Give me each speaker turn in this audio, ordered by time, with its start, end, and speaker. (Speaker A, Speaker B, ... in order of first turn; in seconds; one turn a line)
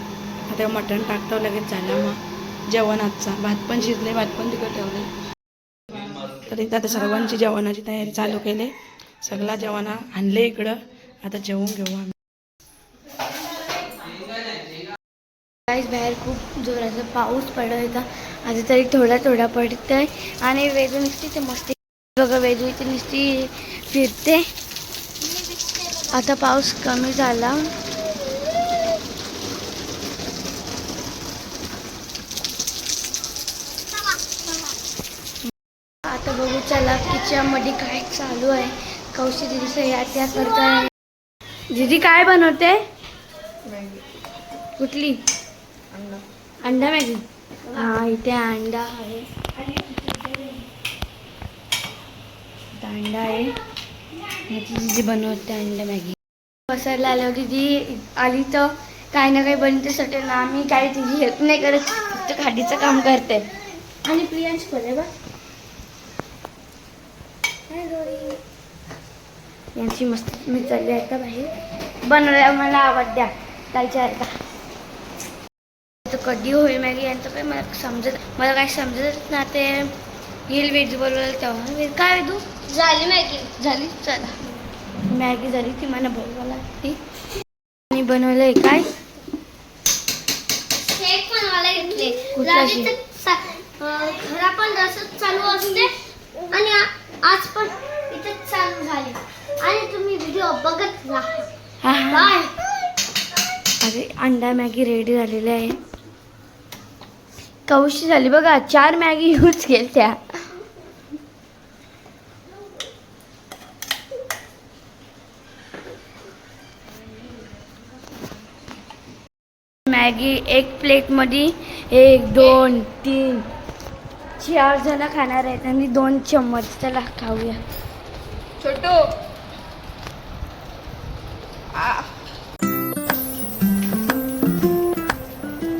Speaker A: 0.5-5.1
Speaker A: 6.3-12.2
Speaker B: 15.7-24.5
Speaker B: 26.1-27.7
Speaker B: 36.0-40.9
Speaker B: 41.7-42.8
Speaker B: 44.8-45.2
Speaker B: 46.6-49.3
Speaker B: 52.8-53.5
Speaker B: 54.5-56.1
Speaker B: 56.7-63.5
Speaker B: 64.1-65.1
Speaker C: 64.1-65.0
Speaker B: 67.7-68.4
Speaker B: 69.7-71.5
Speaker B: 72.0-74.4
Speaker B: 76.0-79.9
Speaker B: 80.5-82.6
Speaker C: 82.7-83.7
Speaker B: 83.5-84.3
Speaker B: 85.0-87.0
Speaker B: 87.9-88.9
Speaker C: 90.8-95.9
Speaker B: 92.3-92.9
Speaker C: 96.5-101.5
Speaker A: 101.8-102.2
Speaker B: 101.8-102.5
Speaker C: 102.1-102.5
Speaker B: 103.8-105.8
Speaker B: 107.7-110.5
Speaker B: 119.9-123.5
Speaker B: 124.4-127.6
Speaker C: 128.6-129.0